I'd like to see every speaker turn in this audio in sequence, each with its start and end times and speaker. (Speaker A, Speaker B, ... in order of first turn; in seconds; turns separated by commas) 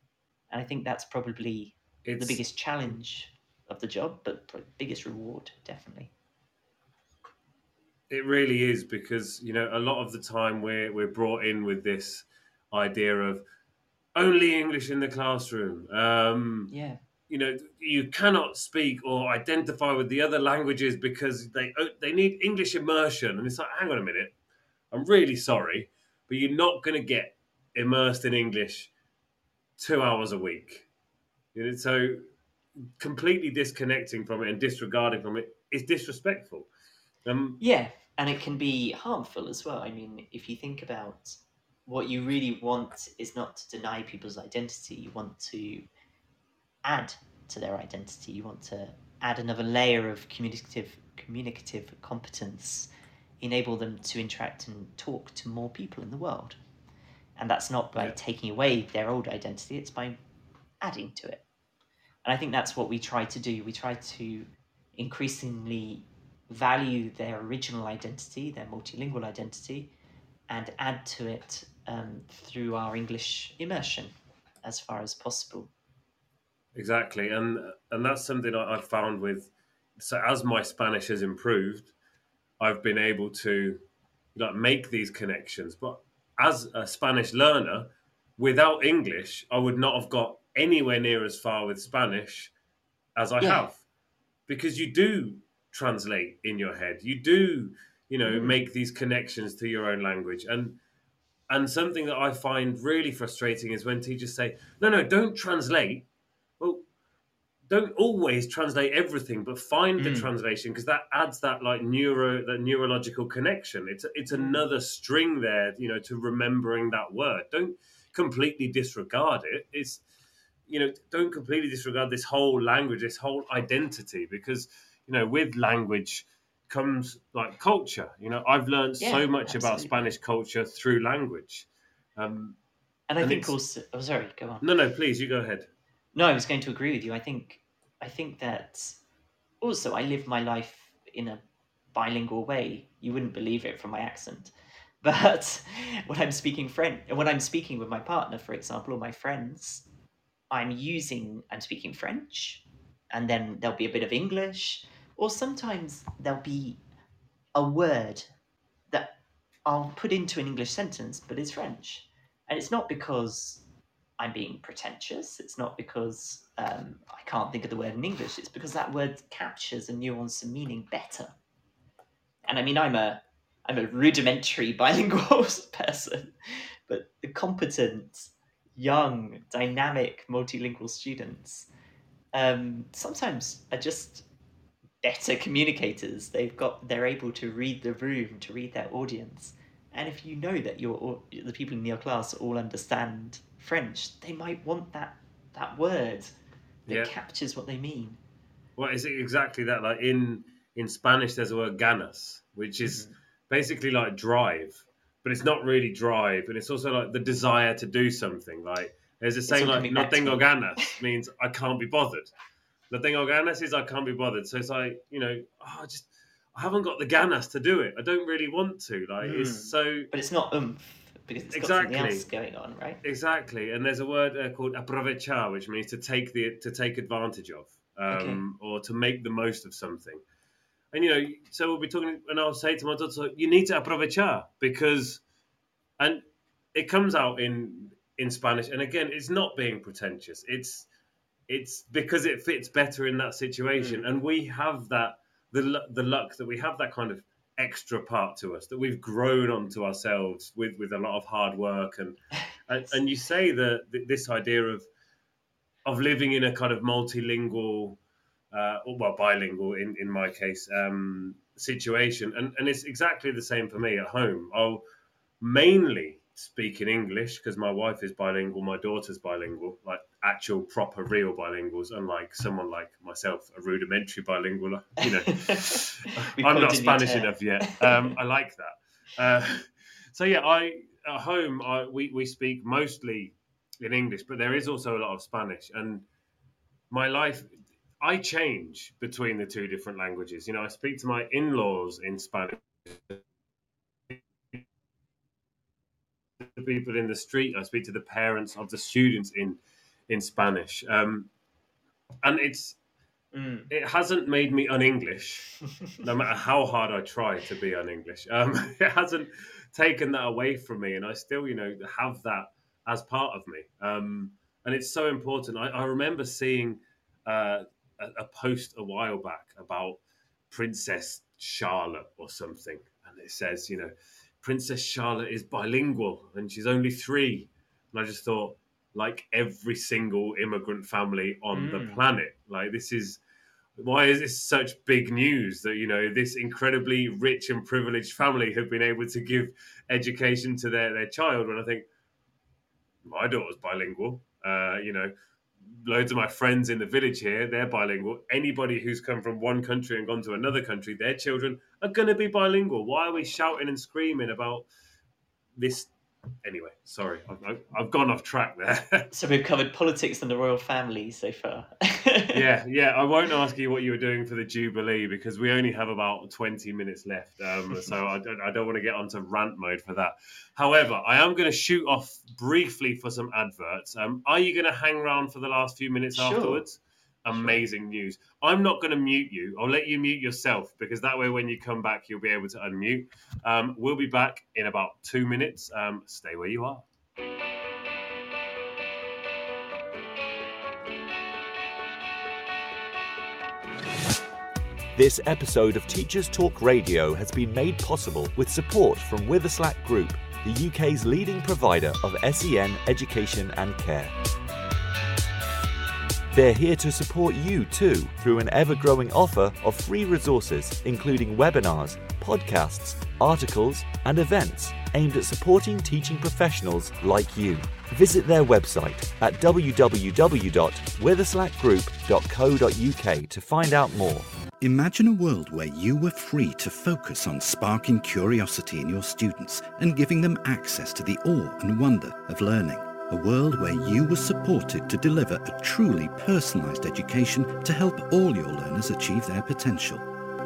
Speaker A: 0.5-6.1, Speaker B: 2.0-2.4, Speaker B: 8.1-13.4, Speaker B: 14.2-16.7, Speaker A: 16.7-17.0, Speaker B: 17.3-24.3, Speaker B: 24.9-28.9, Speaker B: 29.8-30.9, Speaker B: 31.5-32.2, Speaker B: 33.0-36.7, Speaker B: 37.3-37.6, Speaker A: 37.6-45.9, Speaker A: 46.9-52.9, Speaker A: 53.4-56.6, Speaker A: 57.4-60.2, Speaker A: 60.8-61.4, Speaker A: 62.2-69.9, Speaker A: 70.5-75.7, Speaker B: 76.8-81.9, Speaker B: 82.6-83.8, Speaker B: 84.3-92.5, Speaker B: 93.2-93.8, Speaker A: 93.4-93.7, Speaker B: 94.5-100.8, Speaker A: 98.2-98.6, Speaker B: 101.5-106.0, Speaker B: 107.7-120.0, Speaker A: 110.0-110.3, Speaker A: 114.3-114.6, Speaker B: 120.7-132.6, Speaker A: 129.0-129.9, Speaker A: 133.1-134.6, Speaker B: 133.2-133.5, Speaker B: 134.6-135.7, Speaker A: 136.2-139.0, Speaker A: 139.6-141.4, Speaker A: 141.9-149.8, Speaker A: 150.5-156.8, Speaker A: 157.6-158.3, Speaker A: 158.9-163.6, Speaker A: 164.2-171.3, Speaker A: 172.5-181.7, Speaker A: 182.3-184.2, Speaker A: 185.0-196.3, Speaker A: 196.9-198.2, Speaker B: 196.9-197.1, Speaker B: 198.8-212.3, Speaker A: 202.8-203.2, Speaker A: 209.5-210.9, Speaker B: 212.9-220.1, Speaker A: 219.2-223.0, Speaker B: 221.5-222.3, Speaker B: 223.0-230.2, Speaker A: 228.1-228.4, Speaker B: 230.9-235.2, Speaker B: 236.0-240.9, Speaker B: 241.5-254.9, Speaker A: 243.8-244.1, Speaker B: 255.8-258.0, Speaker B: 258.5-264.8, Speaker B: 265.4-286.1, Speaker A: 275.0-278.1, Speaker B: 286.9-293.2, Speaker B: 294.1-294.6, Speaker B: 296.4-301.3, Speaker B: 302.2-302.8, Speaker A: 303.3-303.7, Speaker B: 303.7-320.0, Speaker B: 320.5-333.2, Speaker A: 331.5-332.0, Speaker B: 333.8-341.9, Speaker B: 343.1-345.1, Speaker B: 345.7-354.7, Speaker B: 355.6-355.9, Speaker B: 356.4-359.1, Speaker A: 359.1-362.4, Speaker B: 362.3-386.9, Speaker A: 376.1-376.6, Speaker A: 377.3-377.6, Speaker C: 394.9-404.1, Speaker C: 406.3-424.3, Speaker D: 424.6-440.1